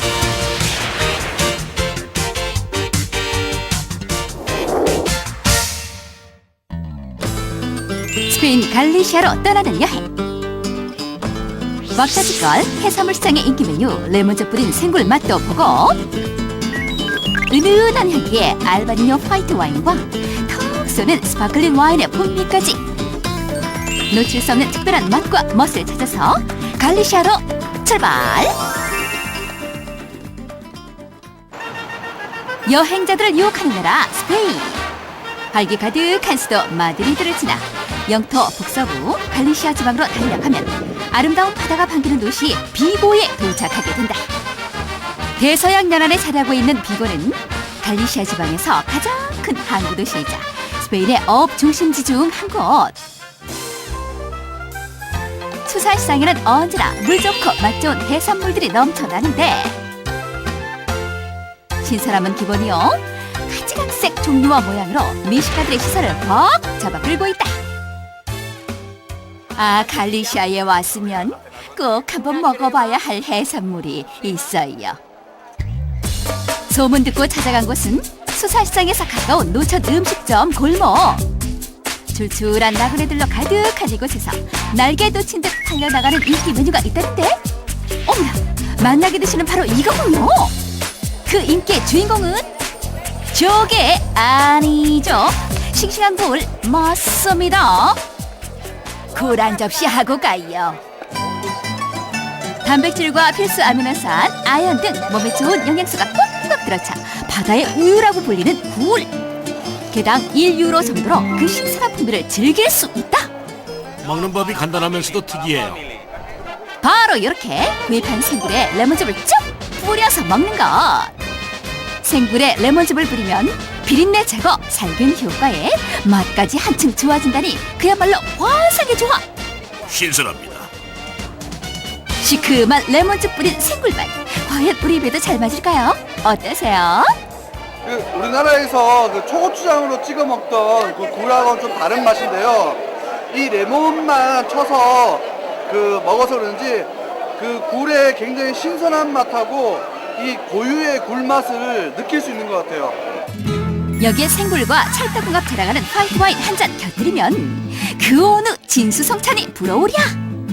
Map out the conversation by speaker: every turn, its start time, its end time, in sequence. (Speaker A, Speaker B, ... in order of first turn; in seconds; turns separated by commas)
Speaker A: 8.3-10.1, Speaker A: 11.9-16.0, Speaker A: 17.5-22.8, Speaker A: 24.1-28.6, Speaker A: 32.7-34.9, Speaker A: 35.5-44.3, Speaker A: 45.4-53.0, Speaker A: 55.6-59.8, Speaker A: 61.8-67.6, Speaker A: 69.5-75.0, Speaker A: 76.7-81.2, Speaker A: 82.1-87.4, Speaker A: 88.0-90.5, Speaker A: 91.3-92.5, Speaker A: 93.3-98.0, Speaker A: 99.1-100.8, Speaker A: 102.6-109.1, Speaker A: 109.9-113.3, Speaker B: 114.0-115.8, Speaker A: 116.8-121.1, Speaker A: 122.0-129.2, Speaker B: 129.9-130.7, Speaker A: 132.2-137.2, Speaker C: 137.9-153.0, Speaker A: 154.0-160.2